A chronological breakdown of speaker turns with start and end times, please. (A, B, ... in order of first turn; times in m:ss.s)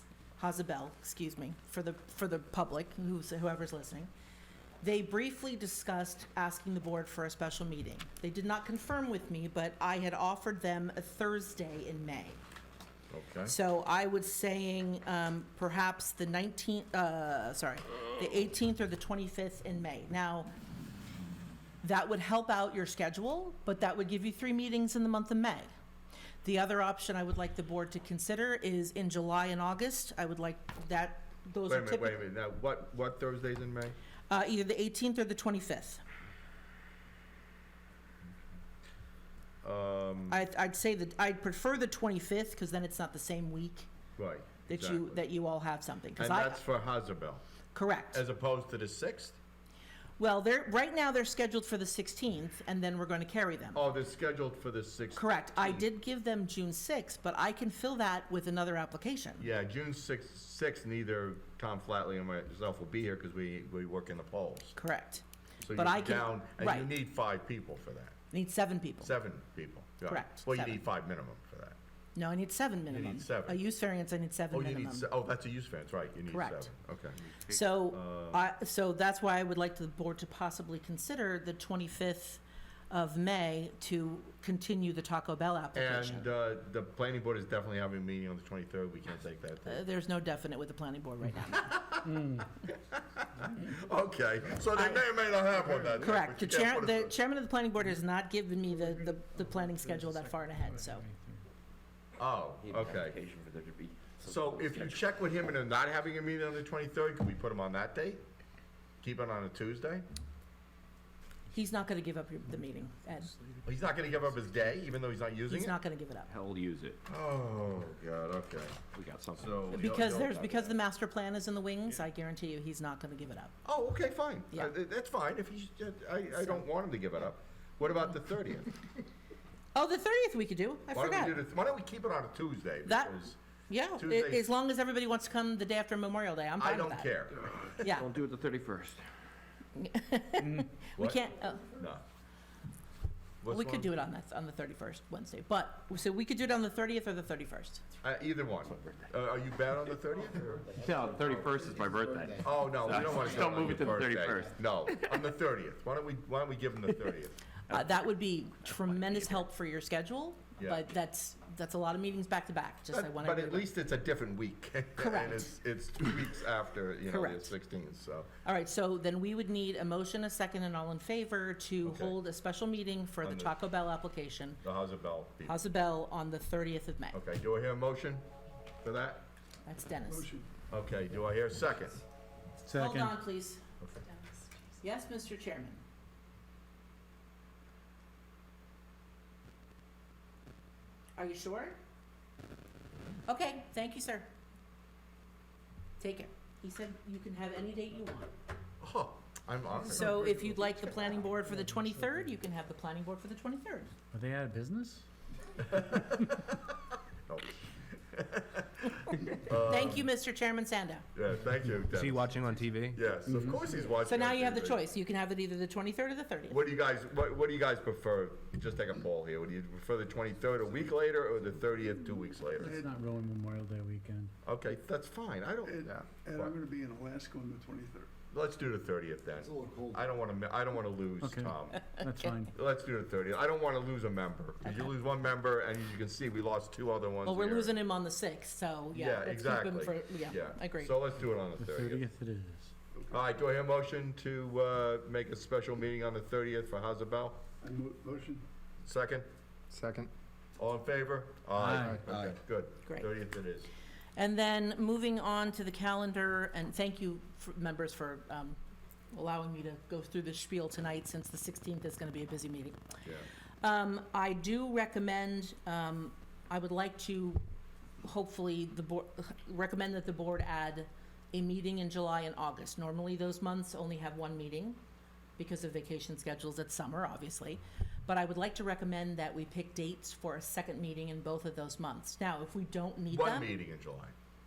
0:00.4-0:04.1 A
0:04.8-0:12.4 A
0:13.1-0:13.6 B
0:13.4-0:20.5 A
0:21.8-0:25.7 A
0:26.4-0:32.2 A
0:31.7-0:34.0 B
0:34.3-0:36.0 A
0:39.6-0:40.4 B
0:40.3-0:43.9 A
0:44.2-0:45.2 B
0:44.7-0:46.6 A
0:46.2-0:47.4 B
0:47.7-0:48.2 A
0:48.1-0:49.4 B
0:50.2-0:53.8 A
0:53.7-0:55.9 B
0:55.2-0:59.5 A
0:59.4-1:04.8 B
1:04.8-1:06.9 A
1:05.6-1:08.2 B
1:08.3-1:09.1 A
1:09.0-1:11.8 B
1:10.1-1:10.8 A
1:12.2-1:15.1 A
1:12.9-1:13.6 B
1:14.5-1:17.2 B
1:16.3-1:16.7 A
1:17.3-1:17.6 C
1:17.5-1:26.3 A
1:17.9-1:18.4 B
1:25.7-1:29.8 B
1:29.7-1:32.0 A
1:31.5-1:32.1 B
1:32.0-1:32.5 D
1:32.9-1:37.1 B
1:33.4-1:33.7 D
1:34.7-1:35.1 A
1:35.9-1:41.0 A
1:38.7-1:41.4 D
1:42.2-1:43.2 B
1:42.6-1:45.0 C
1:44.2-1:48.2 B
1:49.0-1:50.0 B
1:51.5-1:53.3 A
1:53.6-1:55.8 B
1:55.5-1:56.3 A
1:56.3-1:57.0 C
1:57.1-1:58.8 B
1:58.9-2:00.6 C
1:59.4-2:00.6 B
1:59.7-2:03.6 A
2:03.6-2:08.7 B
2:06.4-2:06.6 A
2:09.7-2:11.4 A
2:10.9-2:13.4 B
2:12.9-2:17.2 A
2:14.0-2:14.5 B
2:16.6-2:17.5 B
2:17.5-2:19.1 C
2:17.8-2:18.2 A
2:19.8-2:21.7 A
2:20.4-2:20.7 D
2:21.0-2:22.0 B
2:23.4-2:24.0 B
2:23.5-2:27.8 A
2:28.0-2:30.7 B
2:28.7-2:29.1 C
2:30.4-2:34.5 E
2:30.7-2:34.5 C
2:32.4-2:37.4 B
2:37.7-2:43.7 A
2:40.6-2:40.8 B
2:42.9-2:48.3 B
2:45.0-2:45.5 A
2:47.1-2:47.6 A
2:48.4-2:54.6 A
2:51.8-2:52.2 B
2:53.2-2:53.5 B
2:54.6-2:55.6 B
2:55.4-2:57.2 A
2:57.1-2:58.2 B
2:58.8-2:59.2 B
2:59.7-3:00.3 A
3:00.1-3:00.5 F
3:00.7-3:02.0 B
3:02.6-3:03.2 D
3:02.7-3:05.8 A
3:11.2-3:11.8 A
3:13.3-3:14.3 A
3:16.0-3:18.3 A
3:18.8-3:20.4 B
3:19.9-3:23.9 A
3:20.2-3:22.3 D
3:24.1-3:25.0 D
3:25.7-3:26.7 B
3:27.3-3:30.1 B
3:29.6-3:31.1 A
3:31.2-3:34.8 B
3:31.9-3:33.0 C
3:33.2-3:33.7 D
3:33.9-3:36.6 A
3:36.5-3:42.8 B
3:42.6-3:44.3 D
3:44.4-3:46.6 B
3:45.6-3:48.1 F
3:48.3-3:57.8 B
3:49.4-3:50.0 E
3:51.2-3:52.5 D
3:51.8-3:52.1 A
3:57.2-4:01.0 A
3:58.9-4:02.1 B
4:01.6-4:02.7 D
4:03.1-4:07.4 B
4:07.6-4:08.4 F
4:08.8-4:09.3 B
4:09.7-4:10.1 E
4:10.6-4:13.7 B
4:11.6-4:12.0 D
4:12.1-4:12.4 E
4:14.2-4:18.6 A
4:19.1-4:22.8 A
4:23.6-4:27.4 A
4:28.0-4:34.8 A
4:35.4-4:43.6 A
4:43.1-4:44.1 B